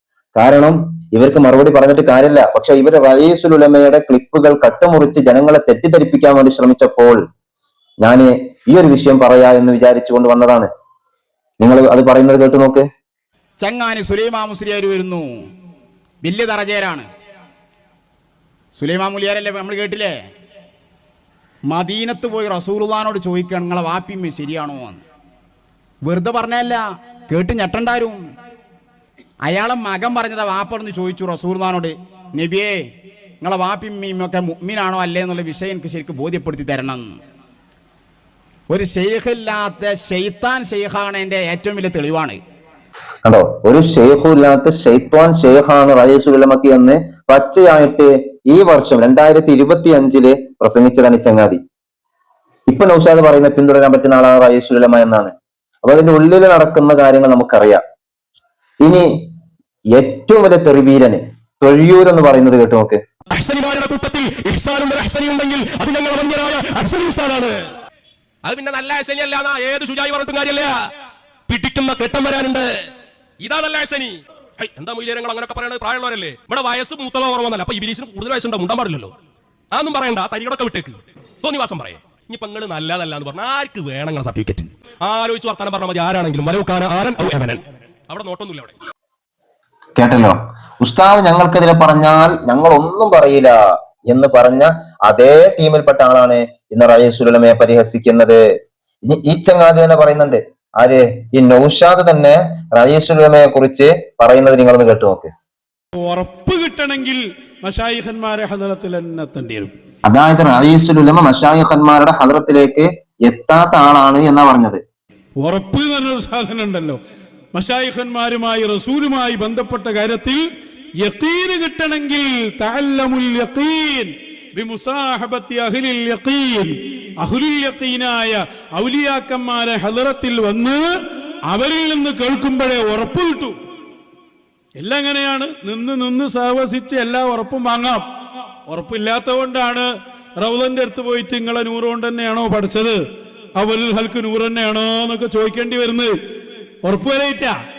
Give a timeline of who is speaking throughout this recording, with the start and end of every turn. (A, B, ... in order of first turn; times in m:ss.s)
0:00.4-0:07.2 A
0:08.0-0:10.7 A
0:11.6-0:12.9 A
0:13.6-0:15.3 B
0:16.2-0:17.1 B
0:18.8-0:20.2 B
0:21.7-0:25.0 B
0:26.0-0:28.2 B
0:29.4-0:32.9 B
0:33.4-0:37.2 B
0:38.7-0:42.4 B
0:43.2-0:51.6 A
0:52.7-0:57.8 A
0:58.8-0:59.1 A
1:00.0-1:03.0 A
1:03.3-1:07.7 C
1:08.4-1:10.9 C
1:11.5-1:12.9 C
1:13.4-1:19.1 C
1:19.7-1:28.7 C
1:30.0-1:33.6 A
1:34.1-1:38.4 A
1:39.0-1:45.3 A
1:46.0-1:49.7 D
1:50.1-1:54.8 A
1:55.4-1:57.0 D
1:57.5-2:00.4 D
2:01.0-2:06.7 D
2:07.2-2:10.8 D
2:11.5-2:13.6 D
2:14.8-2:18.0 D
2:18.7-2:19.9 D
2:20.4-2:23.0 D
2:23.6-2:26.1 D
2:26.8-2:27.5 D